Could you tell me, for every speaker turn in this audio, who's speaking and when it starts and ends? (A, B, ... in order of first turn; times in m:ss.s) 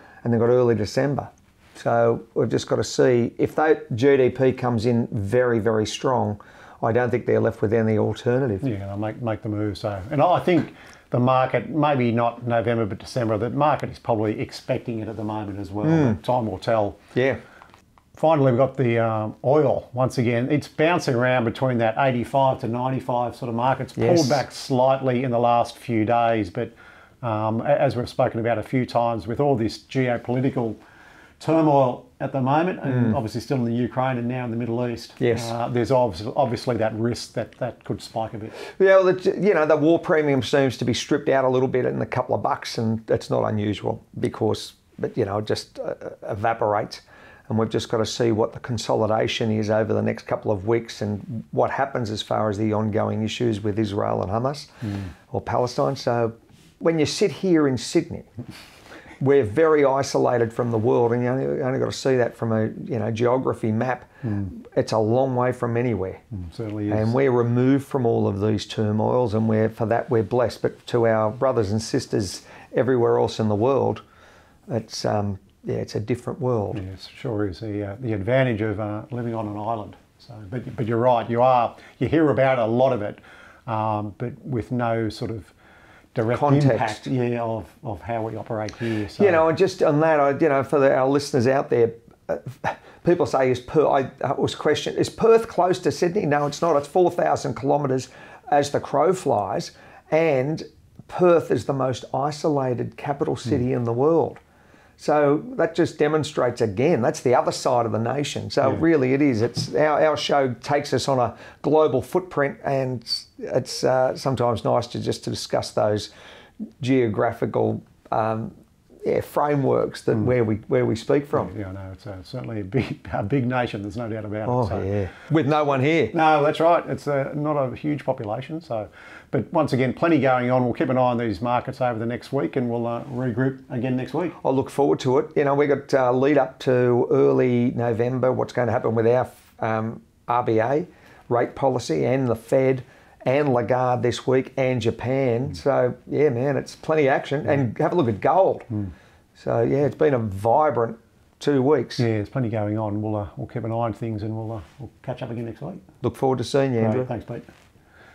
0:00.2-0:08.6 A
0:08.6-0:17.0 B
0:15.8-0:16.2 A
0:17.1-0:17.4 A
0:18.1-0:30.8 B
0:24.0-0:24.4 A
0:31.4-0:38.6 B
0:32.9-0:33.2 A
0:35.2-0:35.5 A
0:38.8-0:58.3 A
0:59.2-1:06.2 A
1:04.2-1:04.5 B
1:06.3-1:07.1 B
1:06.9-1:14.0 A
1:14.7-1:16.8 A
1:16.7-1:25.5 B
1:26.1-1:29.4 B
1:26.3-1:27.1 A
1:29.2-1:44.4 A
1:45.0-1:56.1 A
1:56.8-1:58.5 A
1:59.0-2:01.5 A
2:01.3-2:04.9 B
2:04.5-2:06.1 A
2:06.1-2:14.4 B
2:14.4-2:28.7 A
2:29.4-2:32.0 A
2:32.0-2:35.8 B
2:36.0-2:37.1 A
2:36.8-2:37.4 B